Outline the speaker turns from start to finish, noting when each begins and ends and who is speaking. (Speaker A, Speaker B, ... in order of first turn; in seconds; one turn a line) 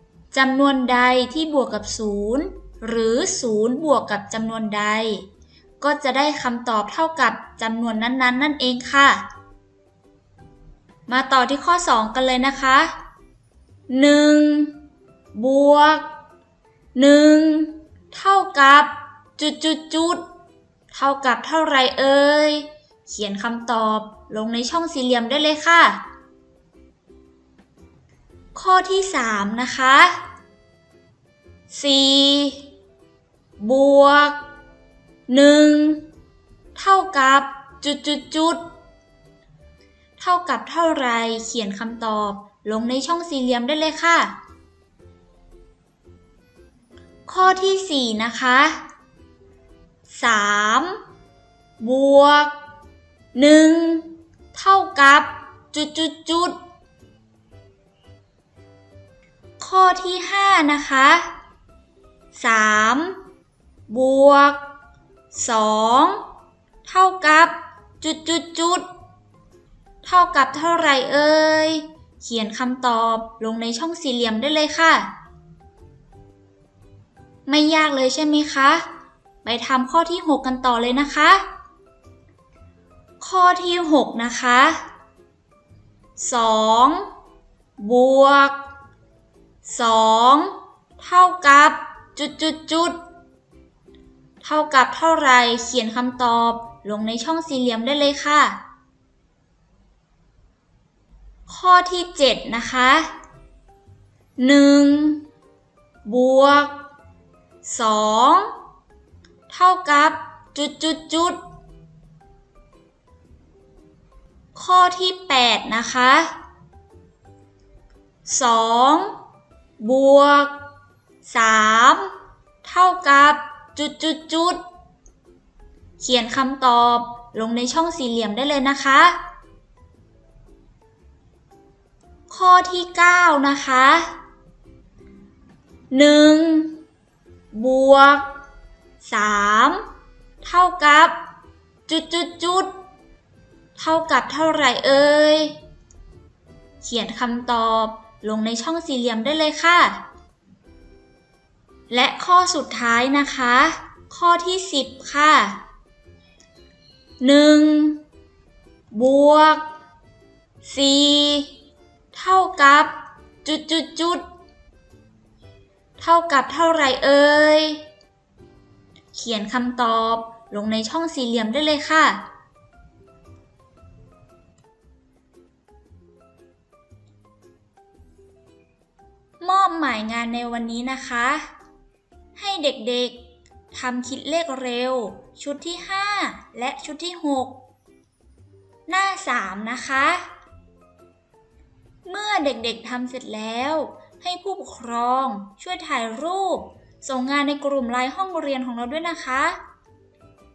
Speaker A: 0.3-5.2
Speaker A: 5.8-9.2
Speaker A: 11.1-12.9
Speaker A: 13.9-14.8
Speaker A: 15.3-16.1
Speaker A: 16.9-20.2
Speaker A: 20.9-26.0
Speaker A: 28.6-30.2
Speaker A: 31.7-32.7
Speaker A: 33.6-34.4
Speaker A: 35.3-36.1
Speaker A: 36.8-38.6
Speaker A: 40.2-44.4
Speaker A: 47.3-48.8
Speaker A: 50.1-51.0
Speaker A: 51.8-52.5
Speaker A: 53.4-56.6
Speaker A: 59.6-61.3
Speaker A: 62.3-63.2
Speaker A: 63.9-64.6
Speaker A: 65.3-66.2
Speaker A: 66.8-68.9
Speaker A: 70.0-75.1
Speaker A: 77.5-78.9
Speaker A: 79.4-81.5
Speaker A: 83.2-84.8
Speaker A: 86.2-87.1
Speaker A: 87.8-88.6
Speaker A: 89.6-93.0
Speaker A: 94.4-98.6
Speaker A: 101.5-103.1
Speaker A: 104.4-105.3
Speaker A: 106.0-106.8
Speaker A: 107.6-108.5
Speaker A: 109.5-111.4
Speaker A: 114.5-116.3
Speaker A: 118.2-119.2
Speaker A: 119.8-120.6
Speaker A: 121.2-124.6
Speaker A: 126.0-129.2
Speaker A: 132.3-134.2
Speaker A: 135.9-136.8
Speaker A: 137.5-138.3
Speaker A: 139.0-139.8
Speaker A: 140.4-141.2
Speaker A: 141.9-142.7
Speaker A: 143.8-145.6
Speaker A: 146.8-150.0
Speaker A: 151.9-155.6
Speaker A: 157.2-158.0
Speaker A: 158.9-159.7
Speaker A: 160.6-161.5
Speaker A: 162.1-164.2
Speaker A: 166.0-167.8
Speaker A: 169.1-172.2
Speaker A: 179.4-181.5
Speaker A: 182.4-187.6
Speaker A: 188.9-190.3
Speaker A: 192.1-199.6